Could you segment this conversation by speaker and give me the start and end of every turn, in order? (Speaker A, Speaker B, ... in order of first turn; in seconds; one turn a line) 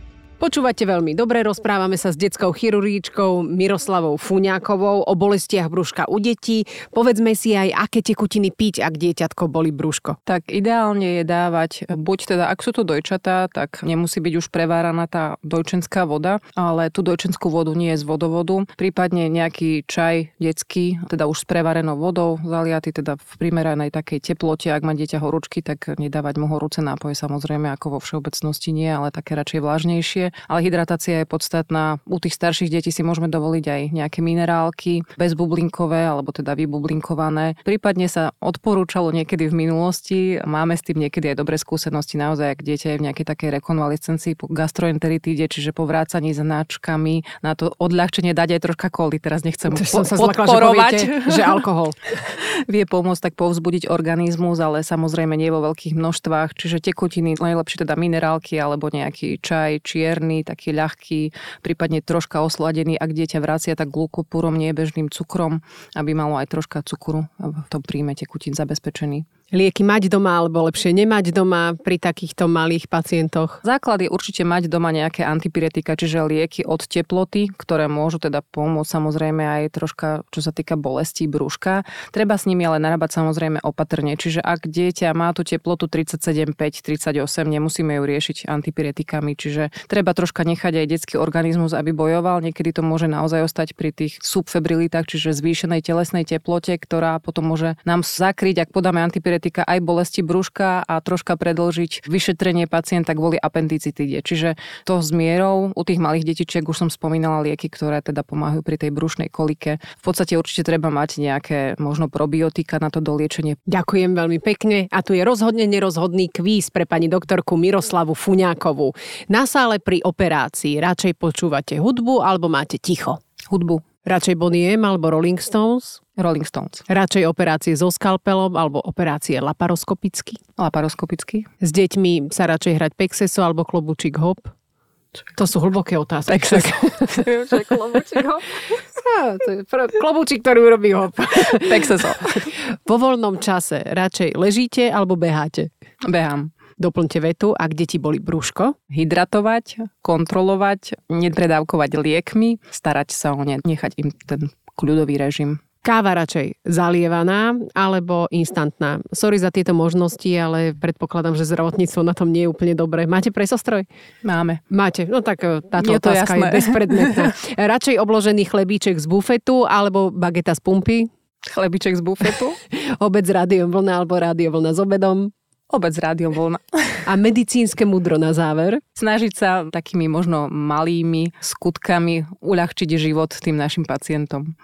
Speaker A: 0.4-10.1
Speaker B: 9.7-10.0
Speaker C: 10.2-51.6
Speaker A: 49.7-52.0
Speaker C: 52.1-69.2
Speaker A: 69.5-73.6
Speaker C: 73.6-113.6
Speaker A: 113.7-123.2
Speaker B: 117.3-117.9
Speaker C: 123.5-123.8
Speaker A: 124.1-126.0
Speaker C: 126.2-126.8
Speaker A: 126.9-130.4
Speaker C: 130.6-131.4
Speaker A: 131.6-134.5
Speaker A: 135.4-137.2
Speaker C: 136.3-138.8
Speaker B: 139.0-140.3
Speaker A: 140.4-140.8
Speaker B: 140.8-141.2
Speaker C: 141.5-142.5
Speaker B: 142.9-143.8
Speaker A: 143.2-145.6
Speaker C: 146.1-146.5
Speaker B: 146.9-148.6
Speaker A: 147.8-148.1
Speaker C: 148.9-155.6
Speaker B: 155.8-157.2
Speaker A: 156.4-158.2
Speaker B: 158.4-158.7
Speaker B: 159.3-163.8
Speaker C: 164.2-164.6
Speaker B: 164.9-165.9
Speaker A: 165.1-166.8
Speaker C: 165.8-167.3
Speaker B: 167.5-171.0
Speaker C: 171.5-172.6
Speaker B: 172.8-175.2
Speaker C: 175.7-177.1
Speaker B: 177.2-178.8
Speaker C: 178.9-184.5